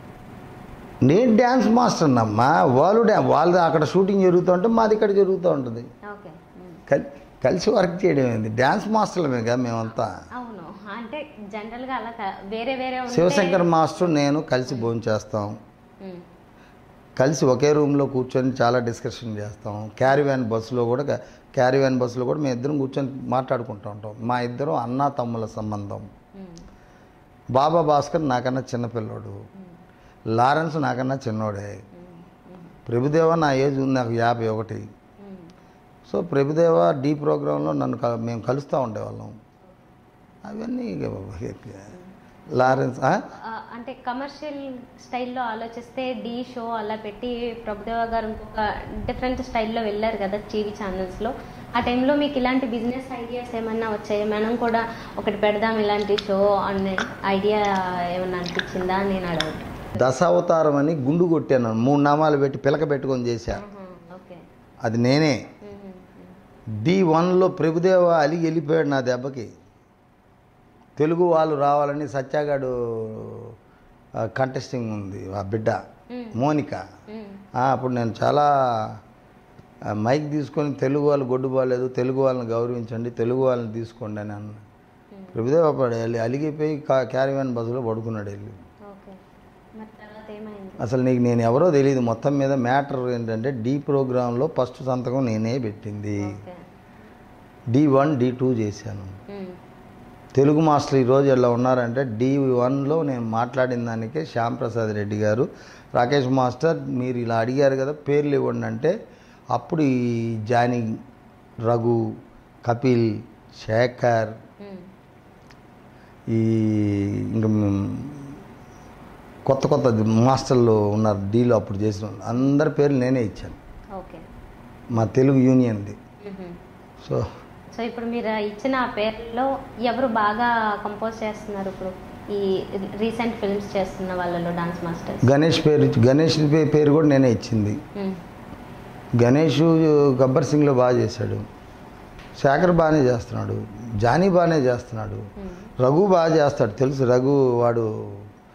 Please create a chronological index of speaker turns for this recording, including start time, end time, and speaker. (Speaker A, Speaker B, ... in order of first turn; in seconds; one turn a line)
Speaker A: 1.0-5.9
Speaker B: 6.1-6.8
Speaker A: 6.9-10.1
Speaker B: 10.4-13.7
Speaker A: 13.1-15.6
Speaker B: 16.0-16.3
Speaker A: 17.2-26.1
Speaker B: 26.4-26.6
Speaker A: 27.6-29.4
Speaker A: 30.3-31.8
Speaker B: 31.9-32.8
Speaker A: 32.9-34.9
Speaker B: 35.2-35.5
Speaker A: 36.1-39.4
Speaker A: 40.5-41.9
Speaker B: 41.9-59.8
Speaker A: 42.5-43.2
Speaker A: 60.0-63.6
Speaker B: 63.5-64.4
Speaker A: 64.8-65.4
Speaker B: 65.6-66.4
Speaker A: 66.8-69.5
Speaker A: 71.0-73.5
Speaker A: 74.3-75.8
Speaker B: 76.1-76.4
Speaker A: 76.3-76.8
Speaker B: 77.1-77.4
Speaker A: 77.5-79.0
Speaker A: 80.0-84.6
Speaker A: 85.3-88.6
Speaker B: 88.9-89.2
Speaker B: 89.8-90.9
Speaker A: 90.8-96.4
Speaker B: 96.2-96.6
Speaker A: 97.7-99.2
Speaker B: 99.3-99.6
Speaker A: 100.3-109.0
Speaker A: 109.5-110.9
Speaker A: 111.7-112.0
Speaker A: 112.7-114.4
Speaker B: 114.6-114.9
Speaker A: 116.3-118.3
Speaker A: 119.5-123.6
Speaker B: 124.0-124.2
Speaker A: 124.9-126.0
Speaker B: 126.2-126.6
Speaker B: 127.7-135.3
Speaker A: 135.2-137.8
Speaker B: 138.0-138.2
Speaker A: 139.2-141.4
Speaker A: 142.4-145.2
Speaker B: 145.4-145.7
Speaker A: 145.8-148.3